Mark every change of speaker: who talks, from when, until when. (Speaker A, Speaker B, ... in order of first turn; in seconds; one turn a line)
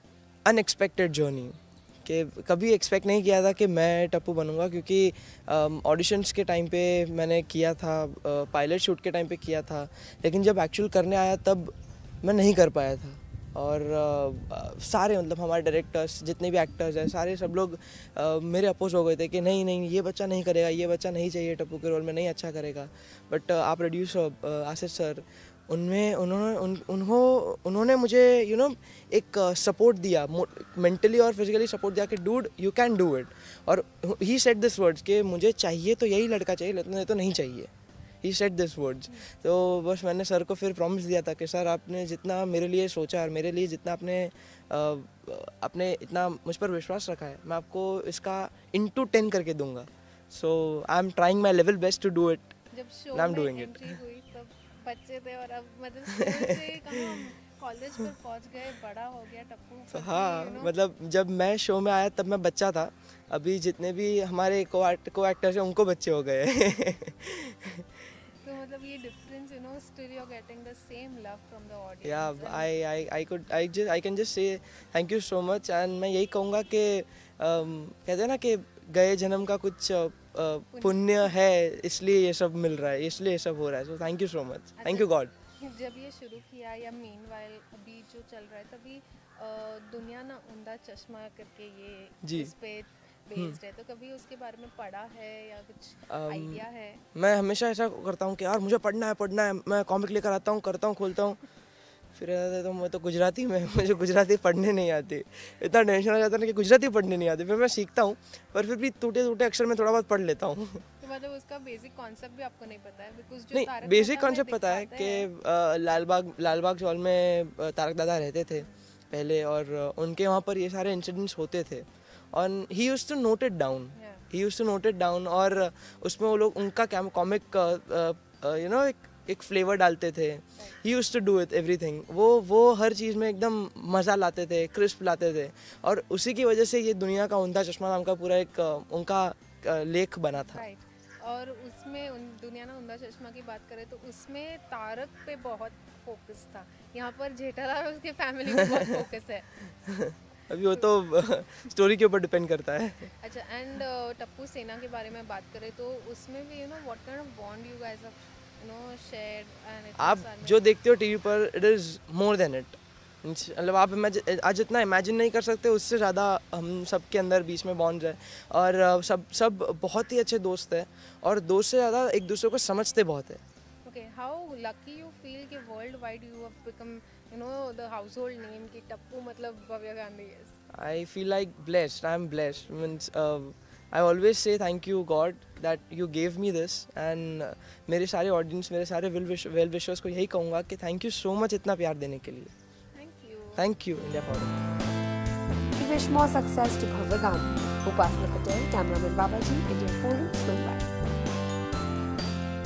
Speaker A: 0.4-37.7
Speaker A: 38.2-52.5
Speaker B: 52.7-60.7
Speaker A: 53.1-54.0
Speaker A: 56.2-57.1
Speaker A: 59.9-67.9
Speaker B: 68.3-72.7
Speaker A: 72.0-85.3
Speaker B: 80.7-81.3
Speaker B: 84.8-97.0
Speaker A: 92.2-92.5
Speaker A: 96.1-96.6
Speaker A: 97.1-101.4
Speaker A: 102.1-110.8
Speaker B: 111.0-115.3
Speaker A: 113.5-140.6
Speaker B: 123.9-124.3
Speaker B: 140.4-149.8
Speaker A: 149.9-153.1
Speaker B: 153.2-160.7
Speaker A: 160.0-173.4
Speaker B: 173.8-180.6
Speaker A: 180.7-192.5
Speaker B: 192.9-193.7
Speaker A: 193.6-194.5
Speaker C: 195.8-200.9